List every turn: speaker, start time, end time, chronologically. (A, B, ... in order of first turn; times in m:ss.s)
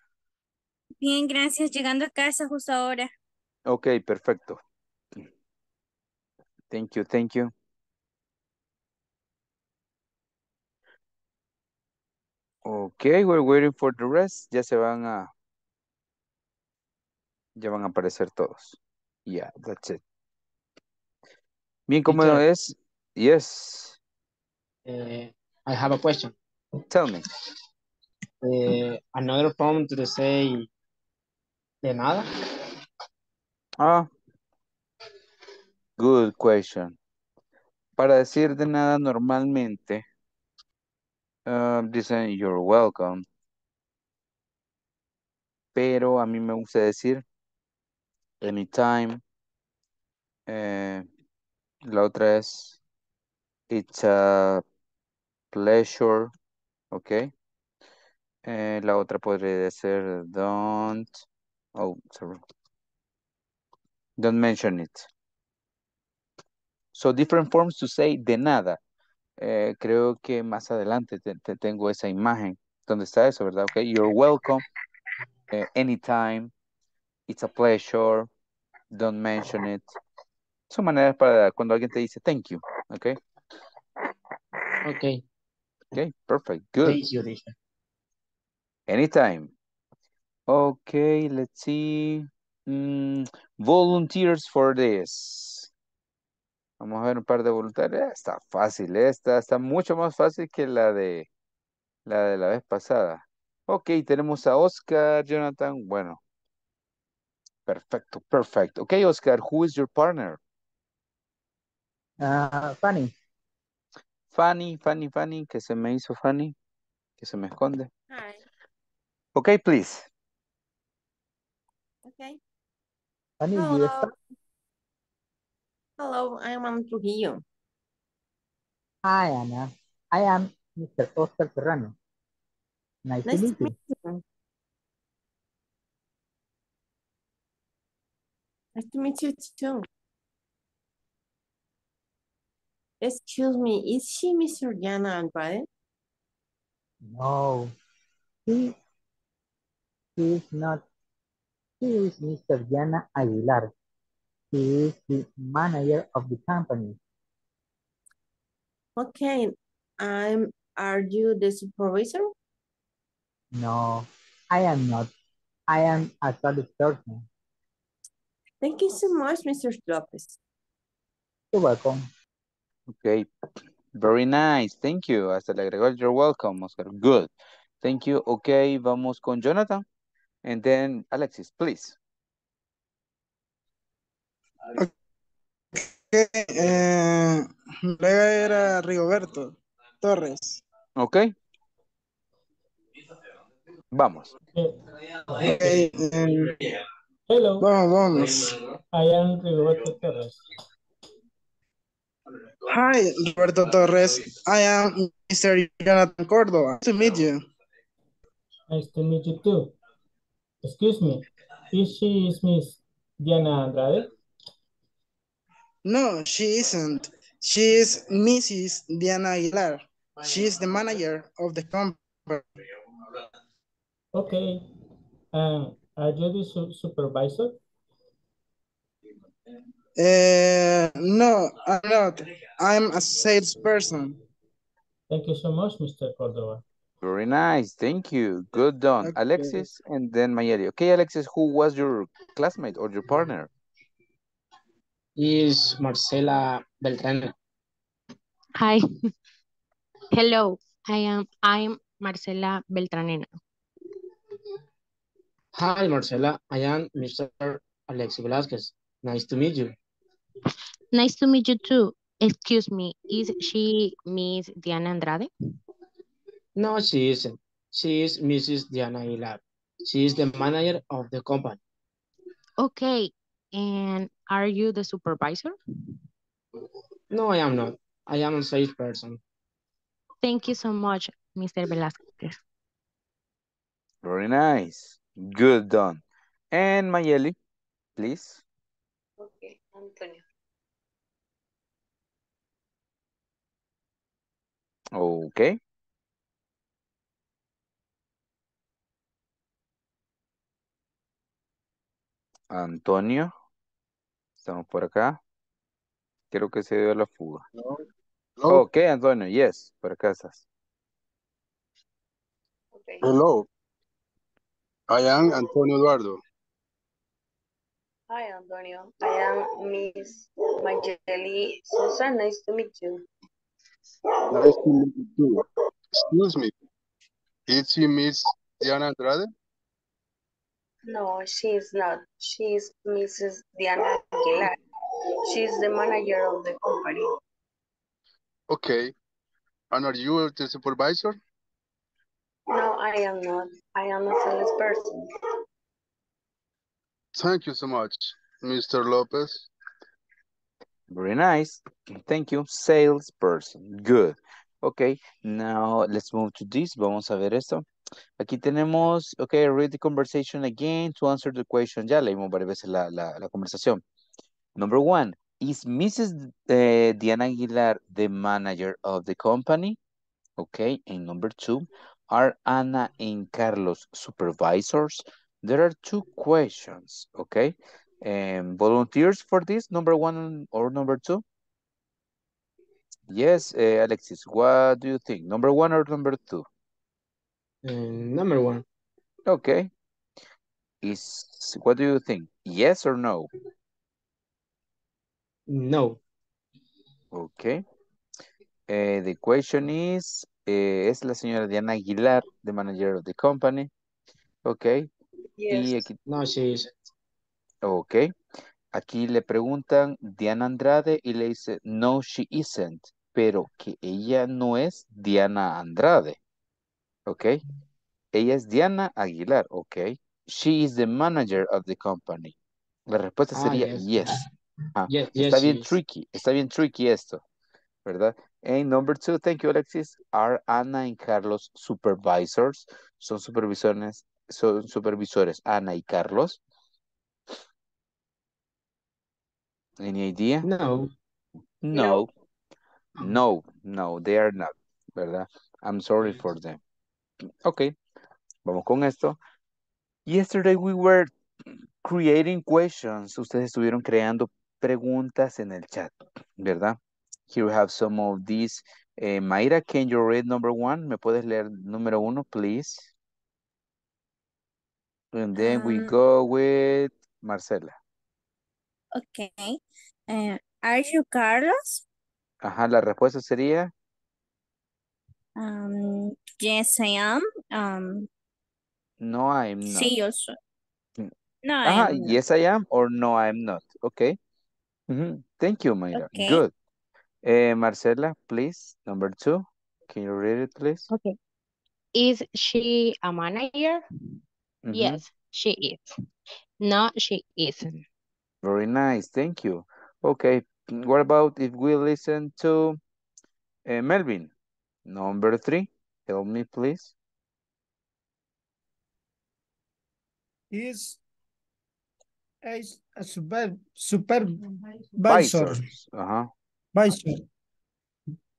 0:01.0-0:03.1 A
0:03.7-0:04.6 B
0:06.7-0:07.5 B
0:12.6-0:15.3 B
0:17.6-0:20.0 B
0:21.9-0:24.0 B
0:22.1-0:22.4 C
0:24.8-0:26.3 C
0:26.9-0:27.2 B
0:28.4-0:30.6 C
0:31.8-0:32.3 C
0:33.8-0:34.1 B
0:36.0-0:37.0 B
0:38.0-0:40.0 B
0:41.4-0:43.2 B
0:45.7-0:47.2 B
0:48.4-0:49.2 B
0:50.5-0:51.0 B
0:51.8-0:52.8 B
0:53.7-0:54.6 B
0:55.5-0:56.3 B
0:56.9-0:57.3 B
0:58.4-1:01.2 B
1:01.8-1:02.4 B
1:04.2-1:05.1 B
1:06.9-1:08.8 B
1:09.4-1:14.6 B
1:15.5-1:16.5 B
1:17.3-1:18.3 B
1:18.9-1:19.9 B
1:20.7-1:23.2 B
1:24.8-1:25.2 C
1:25.9-1:27.0 B
1:26.8-1:27.5 C
1:28.9-1:29.5 B
1:30.5-1:35.7 B
1:36.8-1:41.3 B
1:42.0-1:46.2 B
1:47.7-1:50.4 B
1:52.2-1:53.1 D
1:54.3-1:56.5 B
1:57.2-1:57.9 B
1:58.1-1:58.4 E
1:59.3-2:00.1 B
2:02.0-2:02.4 E
2:03.4-2:04.1 D
2:03.5-2:04.1 E
2:06.0-2:07.4 E
2:09.0-2:11.9 D
2:13.0-2:13.7 D
2:13.2-2:14.2 E
2:18.8-2:19.8 E
2:23.0-2:25.6 E
2:27.1-2:27.7 D
2:28.4-2:28.7 D
2:30.2-2:30.8 D
2:31.8-2:33.7 D
2:34.5-2:37.0 D
2:39.0-2:42.3 E
2:43.5-2:45.1 D
2:45.7-2:47.2 D
2:48.6-2:50.4 E
2:51.5-2:52.1 D
2:52.9-2:53.3 B
2:53.9-2:57.3 B
2:57.8-2:59.8 B
3:00.4-3:02.0 B
3:05.7-3:10.6 F
3:11.0-3:11.3 B
3:13.9-3:14.3 B
3:14.5-3:14.8 G
3:15.3-3:15.7 G
3:15.5-3:16.8 F
3:17.3-3:17.6 G
3:17.6-3:18.4 F
3:18.9-3:20.4 G
3:22.6-3:27.4 F
3:28.7-3:29.7 G
3:30.6-3:34.1 G
3:35.8-3:42.4 F
3:44.1-3:44.6 G
3:45.3-3:47.6 G
3:50.0-3:54.2 F
3:55.1-3:56.6 G
3:57.0-4:03.5 B
3:59.0-3:59.6 F
4:05.2-4:07.3 C
4:08.5-4:08.8 H
4:10.1-4:13.4 H
4:15.5-4:19.7 C
4:20.9-4:25.3 H
4:26.6-4:31.6 C
4:32.6-4:35.6 H
4:37.1-4:39.2 C
4:40.2-4:42.4 H
4:44.0-4:47.4 B
4:48.0-4:48.4 B
4:49.2-4:50.2 I
4:54.9-4:55.6 B
5:02.5-5:03.3 B
5:04.4-5:05.2 B
5:06.3-5:07.4 B
5:07.6-5:07.8 J
5:08.4-5:08.6 J
5:08.5-5:10.4 B
5:12.8-5:13.1 I
5:13.0-5:13.4 J
5:14.9-5:16.2 J
5:18.1-5:23.0 I
5:24.3-5:25.4 J
5:26.0-5:26.5 J
5:27.5-5:29.3 J
5:30.9-5:34.6 I
5:35.3-5:37.0 I
5:38.5-5:38.9 J
5:39.7-5:41.2 J
5:42.5-5:45.0 I
5:47.1-5:49.5 J
5:50.9-5:57.7 B
5:58.2-6:03.8 B
6:04.6-6:09.8 B
6:10.4-6:21.2 B
6:23.1-6:26.4 B
6:27.6-6:28.6 C
6:29.2-6:29.7 B
6:30.8-6:33.3 B
6:35.5-6:36.0 C
6:37.1-6:37.6 B
6:38.7-6:43.7 B
6:44.4-6:44.9 B
6:45.4-6:45.8 I
6:45.5-6:46.0 B
6:46.1-6:46.8 C
6:47.6-6:48.1 B
6:48.7-6:56.2 B
6:57.1-6:57.4 B
6:58.1-7:02.4 B
7:02.9-7:04.2 B
7:03.3-7:04.3 C
7:04.7-7:07.2 B
7:04.9-7:05.7 C
7:07.8-7:16.4 B
7:19.8-7:20.5 B
7:20.4-7:20.9 C
7:21.6-7:22.1 B
7:21.7-7:22.0 I
7:23.0-7:26.6 B
7:27.4-7:27.7 B
7:28.4-7:29.2 B
7:30.1-7:31.1 B
7:31.8-7:36.8 B
7:37.3-7:42.9 B
7:45.1-7:47.8 B
7:45.4-7:45.9 A
7:49.0-7:49.6 A
7:50.1-7:51.8 A
7:52.4-7:53.7 B
7:55.4-7:58.1 A
7:59.0-7:59.9 B
7:59.6-8:00.3 A
8:01.4-8:02.2 A
8:01.6-8:04.2 B
8:04.9-8:06.5 B
8:05.9-8:06.4 A
8:07.2-8:10.9 B
8:10.9-8:11.2 H
8:11.9-8:13.8 H
8:14.6-8:15.0 B
8:14.7-8:15.9 H
8:16.6-8:17.8 H
8:18.4-8:22.8 B
8:23.6-8:24.3 B
8:24.8-8:26.9 B
8:30.5-8:31.0 K
8:32.4-8:34.4 K
8:35.0-8:35.6 K
8:35.1-8:36.3 B
8:36.7-8:37.2 K